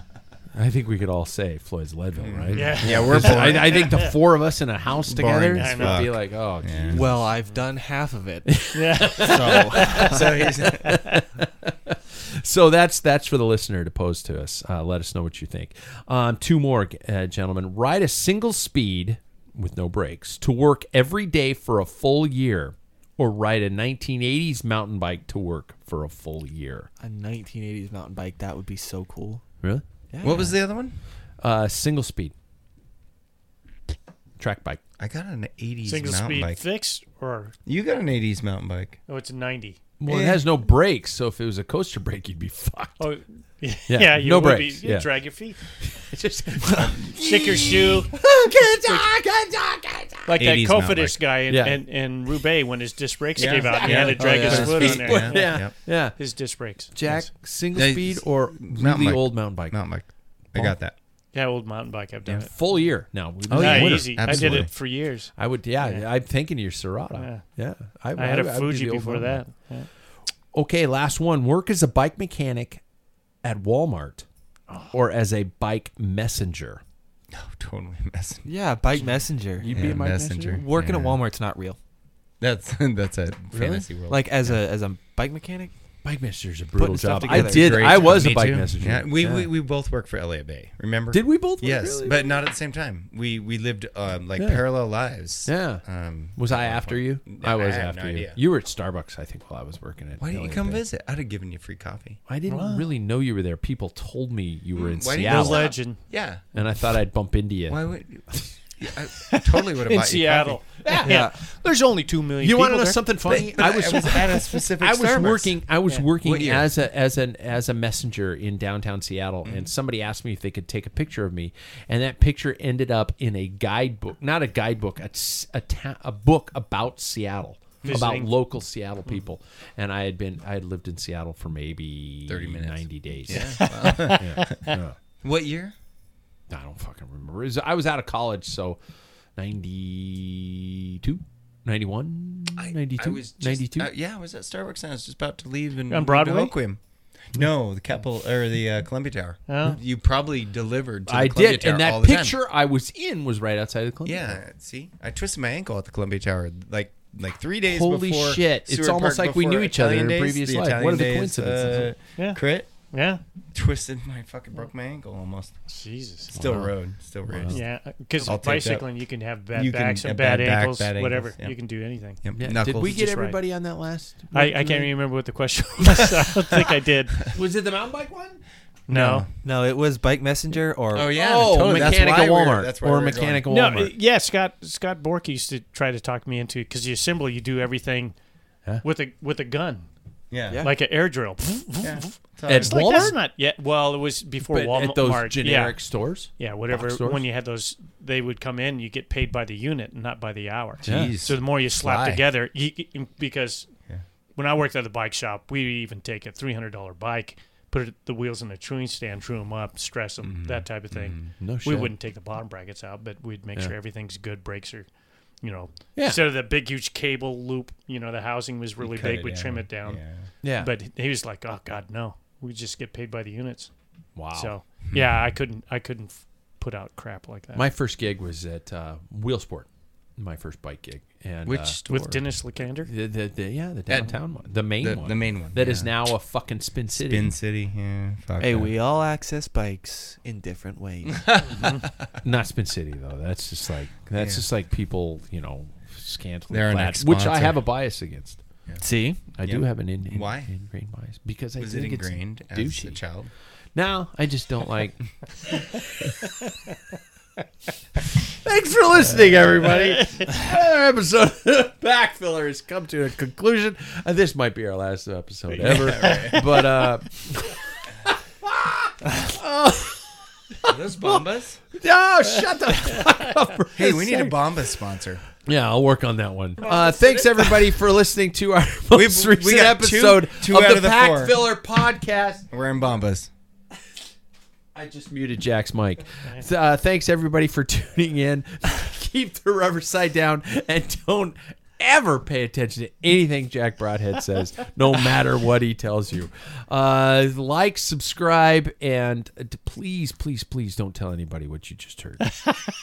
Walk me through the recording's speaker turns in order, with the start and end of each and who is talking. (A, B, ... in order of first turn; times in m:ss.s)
0:00.5-0:07.2 A
0:02.2-0:04.1 B
0:02.5-0:04.2 C
0:05.0-0:07.1 B
0:05.6-0:06.0 C
0:06.9-0:08.6 D
0:08.5-0:26.9 A
0:08.7-0:09.6 C
0:09.2-0:11.0 B
0:09.5-0:10.2 D
0:27.0-0:29.4 D
0:30.1-0:30.6 D
0:30.2-0:31.0 B
0:31.4-0:32.3 A
0:34.4-0:34.8 A
0:35.0-0:36.6 B
0:35.8-0:37.5 C
0:37.6-0:39.0 B
0:39.1-0:39.9 C
0:40.0-0:43.1 A
0:40.0-0:40.4 B
0:43.0-0:45.6 C
0:43.9-0:50.4 A
0:46.6-0:46.9 D
0:46.8-0:47.1 B
0:47.1-0:48.1 C
0:48.8-0:49.0 C
0:50.3-0:57.3 C
0:50.3-0:51.2 B
0:51.5-0:51.8 A
0:53.4-0:55.8 B
0:53.4-0:56.2 A
0:53.8-0:55.2 D
0:56.9-0:59.8 A
0:57.7-1:01.0 B
1:01.3-1:06.0 C
1:02.2-1:04.8 A
1:03.5-1:04.7 B
1:05.4-1:09.4 A
1:07.1-1:07.4 C
1:08.2-1:09.9 C
1:10.5-1:12.8 A
1:13.4-1:14.2 A
1:14.9-1:16.8 A
1:17.3-1:18.4 B
1:18.4-1:21.8 D
1:19.6-1:20.6 A
1:19.7-1:21.2 B
1:22.4-1:24.5 B
1:23.5-1:23.9 A
1:24.1-1:25.7 D
1:26.0-1:29.5 A
1:26.8-1:28.5 D
1:27.2-1:38.4 B
1:31.1-1:32.4 A
1:34.4-1:34.6 A
1:35.4-1:40.8 A
1:40.2-1:42.2 B
1:42.3-1:45.7 A
1:42.4-1:42.8 C
1:44.7-1:46.4 B
1:45.2-1:46.1 C
1:46.5-1:47.8 A
1:47.7-1:50.6 B
1:49.3-1:53.0 C
1:50.8-1:51.2 A
1:51.0-1:51.4 D
1:52.4-2:15.0 A
1:53.2-1:56.7 B
2:07.8-2:08.3 C
2:12.3-2:15.7 B
2:13.3-2:14.7 C
2:16.5-2:18.8 A
2:19.4-2:23.9 A
2:22.6-2:32.4 B
2:25.9-2:26.5 C
2:29.5-2:29.8 C
2:31.1-2:34.4 A
2:34.0-2:42.9 B
2:37.6-2:41.9 A
2:42.2-2:43.2 C
2:43.5-2:45.6 B
2:45.7-2:46.3 C
2:46.3-2:51.6 B
2:46.4-2:46.7 A
2:47.2-2:47.6 A
2:47.5-2:52.2 C
2:52.2-2:53.0 B
2:52.4-2:54.9 A
2:52.8-2:53.4 C
2:54.3-2:57.2 C
2:55.8-2:56.7 A
2:57.3-2:58.4 A
2:58.9-2:59.3 C
2:58.9-2:59.3 B
2:59.4-3:02.0 D
3:00.9-3:03.4 B
3:01.1-3:03.9 A
3:03.5-3:08.1 C
3:08.8-3:09.8 C
3:10.3-3:10.6 B
3:10.5-3:10.7 D
3:10.6-3:15.8 C
3:11.8-3:13.1 B
3:12.5-3:13.2 A
3:14.5-3:17.2 A
3:16.4-3:23.7 C
3:20.8-3:22.2 B
3:20.8-3:21.2 A
3:24.3-3:34.9 C
3:30.2-3:31.4 B
3:31.4-3:31.9 A
3:35.4-3:40.0 C
3:36.0-3:36.2 A
3:38.8-3:40.2 B
3:40.4-3:40.7 A
3:40.5-3:43.7 C
3:44.2-3:44.5 A
3:44.3-3:47.7 C
3:47.5-3:51.8 A
3:51.4-3:52.2 B
3:51.8-3:52.9 C
3:52.8-3:57.3 A
3:53.9-3:54.1 B
3:54.8-3:55.9 B
3:57.0-3:58.7 B
3:58.4-4:01.4 D
4:01.2-4:01.8 B
4:01.5-4:01.8 C
4:02.2-4:08.4 A
4:04.1-4:04.4 B
4:06.5-4:07.6 B
4:08.8-4:09.2 D
4:09.4-4:13.0 A
4:09.4-4:10.5 B
4:11.6-4:13.3 B
4:13.7-4:15.1 A
4:18.3-4:34.4 A
4:25.5-4:26.5 B
4:30.6-4:31.6 B
4:33.7-4:35.2 B
4:35.4-4:42.4 A
4:36.7-4:37.5 B
4:38.9-4:41.4 B
4:42.5-4:43.3 B
4:44.7-5:02.2 A